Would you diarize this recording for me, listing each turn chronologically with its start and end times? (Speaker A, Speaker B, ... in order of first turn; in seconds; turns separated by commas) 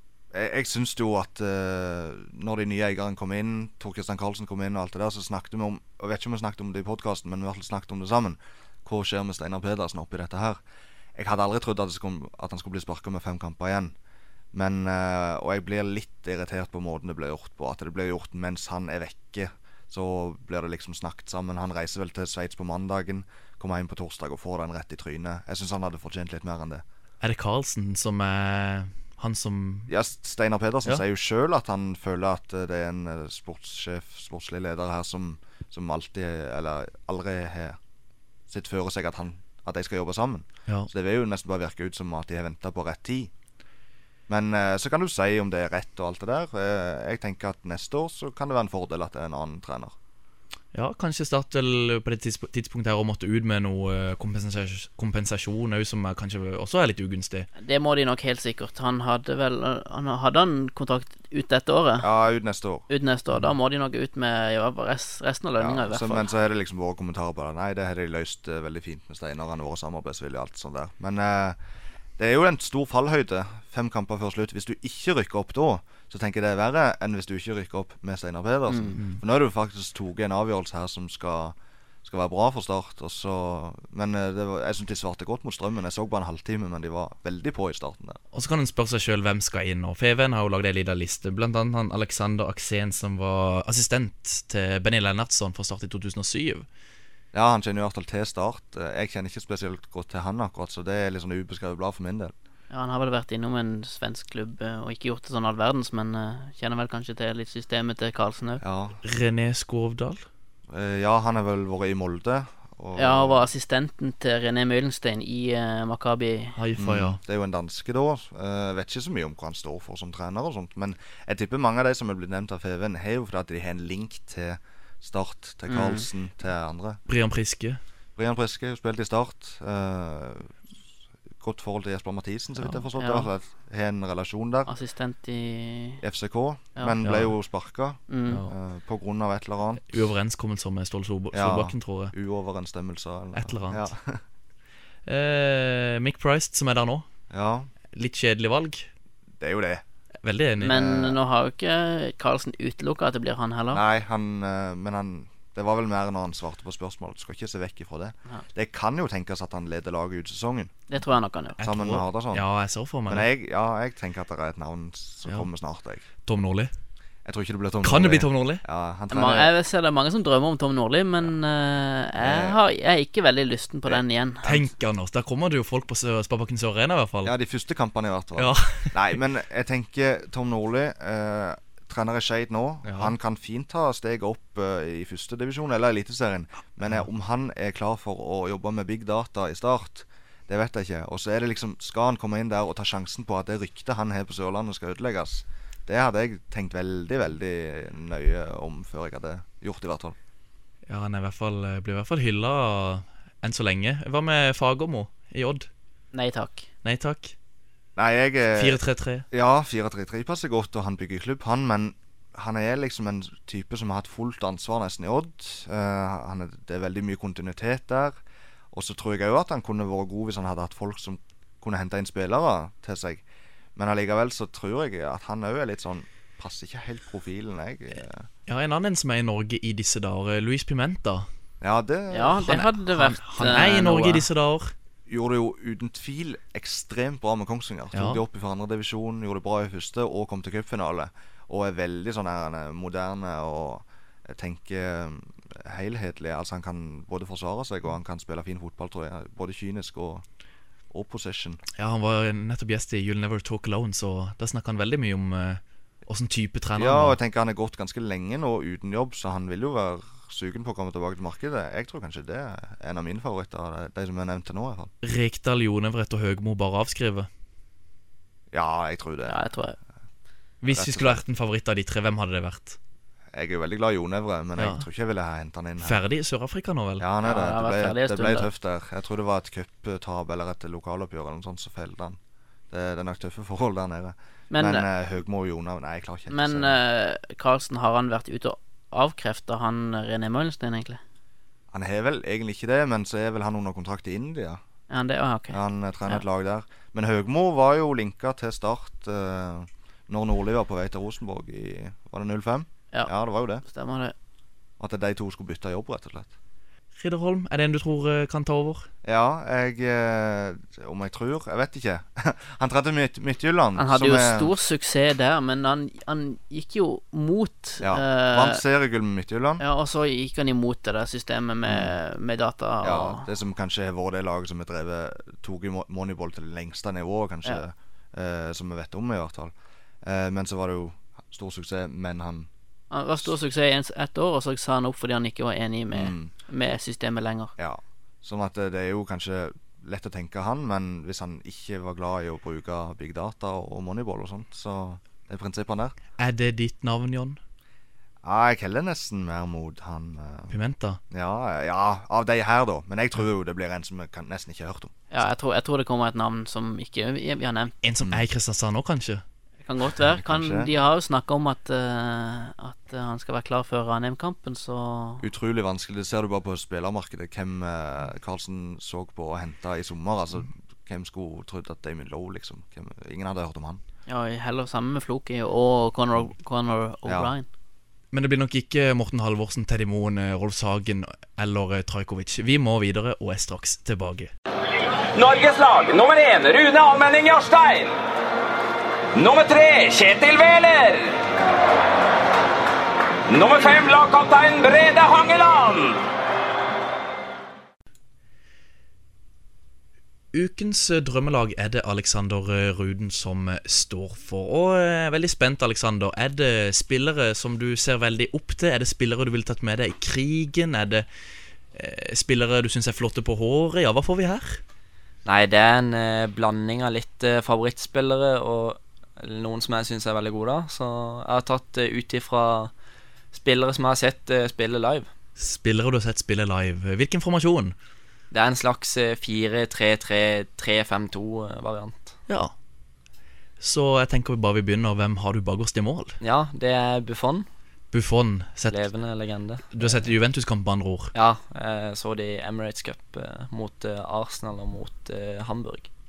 Speaker A: 0.3-10.6, Speaker A: 11.2-13.9, Speaker A: 14.5-26.8, Speaker B: 27.2-29.9, Speaker A: 29.9-37.8, Speaker A: 38.5-43.3, Speaker A: 44.3-49.9, Speaker B: 50.7-57.5, Speaker C: 57.6-62.1, Speaker A: 62.0-62.9, Speaker C: 62.9-66.3, Speaker A: 65.6-71.6, Speaker A: 72.2-88.2, Speaker C: 78.7-79.0, Speaker B: 88.3-96.7, Speaker A: 97.3-102.3, Speaker C: 102.7-108.6, Speaker A: 108.6-109.0, Speaker B: 109.0-110.2, Speaker A: 110.7-113.5, Speaker C: 113.0-116.5, Speaker B: 116.5-117.2, Speaker A: 116.8-127.0, Speaker C: 125.7-126.0, Speaker B: 127.1-127.8, Speaker A: 128.2-130.5, Speaker A: 131.4-134.7, Speaker C: 133.0-133.3, Speaker C: 134.7-136.0, Speaker A: 136.0-140.0, Speaker B: 137.0-137.3, Speaker C: 138.1-138.4, Speaker B: 139.9-142.1, Speaker A: 141.3-144.2, Speaker B: 143.3-143.9, Speaker B: 145.1-147.1, Speaker A: 147.3-147.7, Speaker B: 147.9-148.9, Speaker A: 149.4-149.8, Speaker B: 150.2-150.8, Speaker A: 150.6-151.2, Speaker C: 150.6-153.8, Speaker A: 153.7-160.7, Speaker C: 160.9-161.6, Speaker B: 161.6-163.3, Speaker A: 161.6-162.4, Speaker A: 163.1-166.0, Speaker B: 166.2-166.7, Speaker A: 167.2-169.5, Speaker B: 167.8-168.6, Speaker C: 169.1-174.4, Speaker A: 172.2-172.6, Speaker A: 173.8-174.7, Speaker B: 174.4-177.3, Speaker A: 177.2-200.2, Speaker B: 178.4-179.0, Speaker B: 182.8-183.1, Speaker B: 200.9-205.7, Speaker C: 206.1-206.7, Speaker B: 206.8-207.3, Speaker A: 208.0-208.8, Speaker B: 208.5-209.2, Speaker A: 209.3-218.2, Speaker A: 218.7-223.2, Speaker A: 223.8-228.2, Speaker B: 228.5-231.3, Speaker A: 231.6-232.6, Speaker C: 232.1-234.2, Speaker B: 232.4-234.7, Speaker A: 235.1-250.2, Speaker B: 237.9-238.2, Speaker A: 250.9-251.6, Speaker B: 251.8-257.2, Speaker A: 256.8-264.9, Speaker B: 265.0-267.3, Speaker A: 268.5-269.4, Speaker C: 269.3-269.8, Speaker B: 270.6-272.8, Speaker A: 270.7-271.2, Speaker A: 273.3-276.0, Speaker B: 274.6-274.8, Speaker B: 275.8-277.1, Speaker A: 277.0-282.2, Speaker C: 277.2-278.5, Speaker A: 282.7-286.8, Speaker C: 284.5-284.9, Speaker C: 286.3-291.0, Speaker A: 291.7-294.6, Speaker C: 294.9-296.2, Speaker A: 295.5-303.6, Speaker C: 303.6-304.1, Speaker A: 304.8-306.3, Speaker B: 307.0-308.9, Speaker A: 309.0-314.5, Speaker C: 313.8-318.6, Speaker A: 317.8-319.6, Speaker C: 319.6-323.2, Speaker A: 321.7-321.9, Speaker A: 322.8-329.5, Speaker A: 330.0-332.5, Speaker C: 332.9-337.5, Speaker A: 335.9-336.3, Speaker A: 337.6-345.9, Speaker B: 346.2-347.4, Speaker A: 348.2-350.6, Speaker B: 350.5-351.0, Speaker A: 351.1-354.9, Speaker C: 355.1-357.7, Speaker B: 357.8-359.2, Speaker C: 359.6-365.2, Speaker A: 360.1-360.7, Speaker A: 365.2-373.8, Speaker C: 374.1-377.5, Speaker A: 377.1-377.3, Speaker B: 378.1-384.3, Speaker D: 385.1-387.9, Speaker D: 389.1-391.2, Speaker D: 393.3-396.0, Speaker B: 400.3-411.1, Speaker B: 411.7-414.6, Speaker E: 415.2-422.7, Speaker E: 423.3-425.1, Speaker B: 425.4-427.7, Speaker E: 428.3-432.1, Speaker B: 432.3-432.5, Speaker B: 433.6-436.2, Speaker E: 436.2-437.5, Speaker B: 437.9-438.8, Speaker E: 438.7-440.1, Speaker B: 439.7-441.1, Speaker E: 441.1-445.9